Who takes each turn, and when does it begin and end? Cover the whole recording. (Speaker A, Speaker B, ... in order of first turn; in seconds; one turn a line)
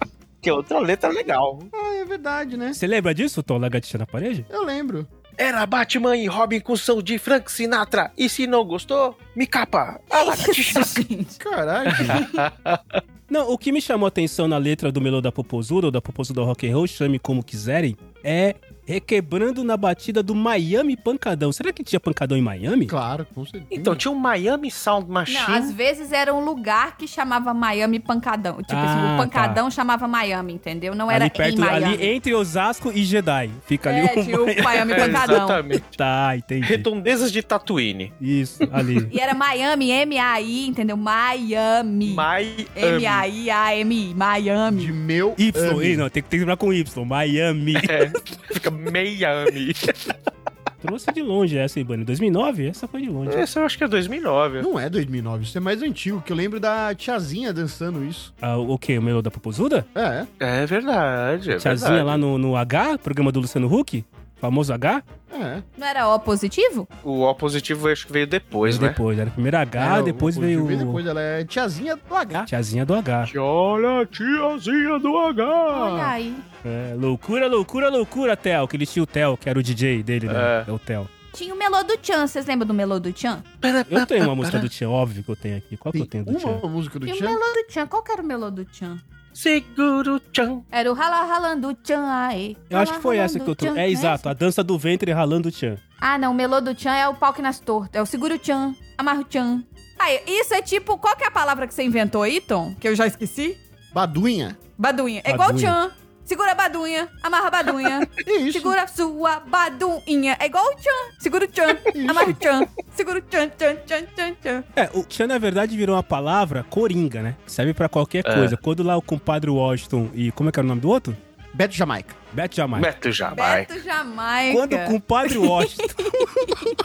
Speaker A: 0.4-1.7
Speaker B: 1.7-2.8
Speaker C: 2.7-4.5
Speaker B: 4.5-5.1
Speaker A: 5.4-11.0
Speaker D: 10.1-11.4
Speaker B: 11.4-12.2
Speaker A: 11.9-13.0
Speaker C: 13.3-22.9
Speaker B: 22.9-24.0
Speaker A: 23.7-25.7
Speaker D: 25.3-32.1
Speaker C: 28.7-29.6
Speaker C: 31.1-35.4
Speaker D: 33.9-35.6
Speaker A: 34.9-35.9
Speaker C: 35.9-36.9
Speaker A: 36.6-38.1
Speaker C: 38.2-39.1
Speaker D: 39.1-45.0
Speaker A: 42.0-43.3
Speaker B: 44.7-46.0
Speaker C: 45.4-48.0
Speaker A: 47.7-50.1
Speaker C: 50.8-53.4
Speaker A: 53.3-54.7
Speaker B: 54.6-58.3
Speaker C: 58.4-59.9
Speaker B: 59.9-60.3
Speaker A: 60.4-62.2
Speaker C: 61.5-65.0
Speaker B: 65.3-65.6
Speaker D: 65.8-66.9
Speaker A: 67.0-69.0
Speaker C: 68.6-71.0
Speaker B: 69.8-72.5
Speaker C: 72.5-73.3
Speaker A: 73.2-76.1
Speaker D: 75.7-76.4
Speaker C: 76.6-81.1
Speaker A: 80.3-80.7
Speaker D: 81.3-83.4
Speaker A: 83.6-84.7
Speaker C: 83.9-86.6
Speaker B: 85.9-87.4
Speaker D: 87.0-89.0
Speaker A: 89.3-90.6
Speaker D: 90.7-94.2
Speaker C: 92.7-95.8
Speaker D: 96.0-103.6
Speaker B: 103.9-104.6
Speaker D: 104.8-114.6
Speaker C: 105.2-105.8
Speaker B: 108.2-108.8
Speaker B: 111.9-112.4
Speaker C: 114.8-121.2
Speaker A: 118.2-118.6
Speaker B: 121.5-122.2
Speaker C: 122.3-122.9
Speaker A: 122.7-123.7
Speaker D: 123.3-126.6
Speaker C: 124.5-126.1